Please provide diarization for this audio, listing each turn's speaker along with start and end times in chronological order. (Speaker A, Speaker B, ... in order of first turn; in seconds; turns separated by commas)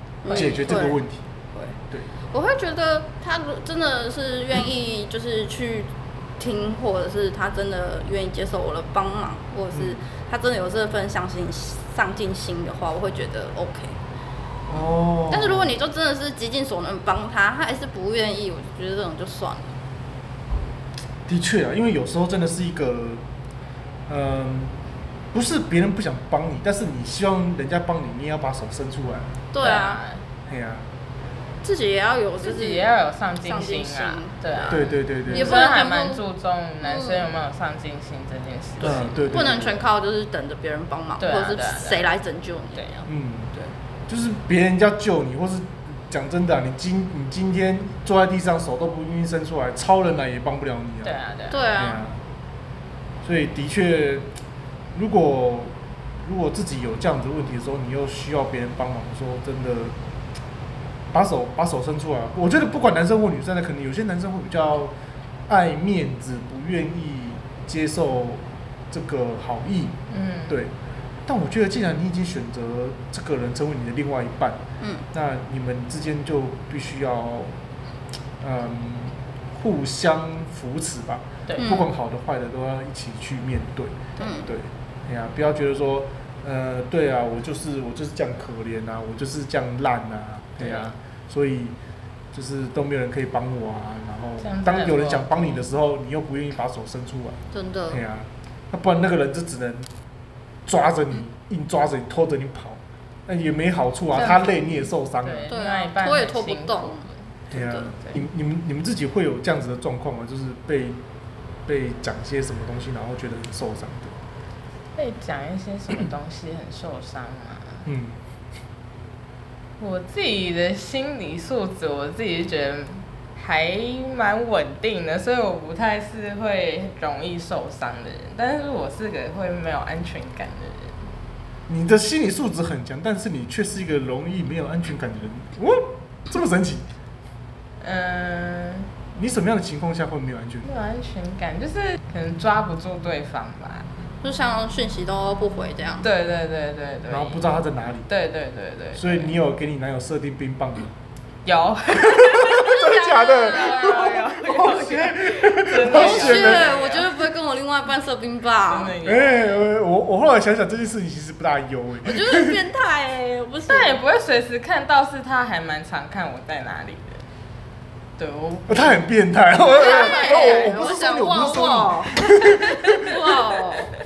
Speaker A: 0.2-1.0, Speaker B: 0.3-1.2, Speaker A: 2.3-13.9, Speaker B: 9.7-10.0, Speaker B: 14.7-15.7, Speaker A: 15.3-19.7, Speaker B: 21.3-23.2, Speaker B: 24.1-24.7, Speaker B: 25.3-29.4, Speaker A: 29.5-30.0, Speaker C: 29.6-30.2, Speaker B: 30.5-30.9, Speaker A: 31.6-32.9, Speaker C: 32.4-39.2, Speaker A: 33.4-36.2, Speaker B: 34.7-35.6, Speaker A: 36.8-37.3, Speaker B: 38.8-39.8, Speaker A: 39.3-43.0, Speaker C: 41.2-42.1, Speaker C: 42.8-43.1, Speaker B: 43.1-43.5, Speaker B: 44.1-51.1, Speaker C: 51.0-51.6, Speaker A: 51.5-52.0, Speaker B: 51.8-52.2, Speaker B: 53.2-54.3, Speaker B: 54.9-60.0, Speaker B: 61.1-64.9, Speaker B: 65.5-70.0, Speaker C: 70.1-70.5, Speaker B: 70.5-70.7, Speaker B: 71.3-74.6, Speaker B: 75.1-77.5, Speaker B: 78.4-91.8, Speaker C: 81.5-81.7, Speaker A: 81.5-81.9, Speaker A: 84.2-84.5, Speaker C: 90.6-90.9, Speaker B: 92.3-97.4, Speaker C: 94.4-95.6, Speaker A: 97.5-98.0, Speaker B: 97.9-99.9, Speaker B: 100.7-105.5, Speaker C: 104.1-107.2, Speaker A: 105.5-107.9, Speaker B: 107.5-111.0, Speaker C: 108.0-108.2, Speaker B: 111.7-114.2, Speaker C: 114.9-117.8, Speaker B: 117.8-118.2, Speaker C: 119.8-131.1, Speaker B: 131.7-136.8, Speaker C: 137.8-138.9, Speaker B: 139.1-140.7, Speaker C: 140.6-143.9, Speaker A: 144.2-146.1, Speaker C: 146.0-147.6, Speaker B: 147.1-148.1, Speaker C: 148.1-149.3, Speaker B: 148.9-150.9, Speaker C: 151.4-157.2, Speaker B: 151.9-156.8, Speaker A: 152.6-154.2, Speaker A: 155.8-158.9, Speaker C: 158.7-159.6, Speaker B: 159.0-162.6, Speaker A: 162.0-164.0, Speaker C: 163.7-167.2, Speaker C: 168.2-169.0, Speaker B: 168.7-173.0, Speaker A: 169.7-173.9, Speaker C: 169.7-171.0, Speaker C: 172.2-173.2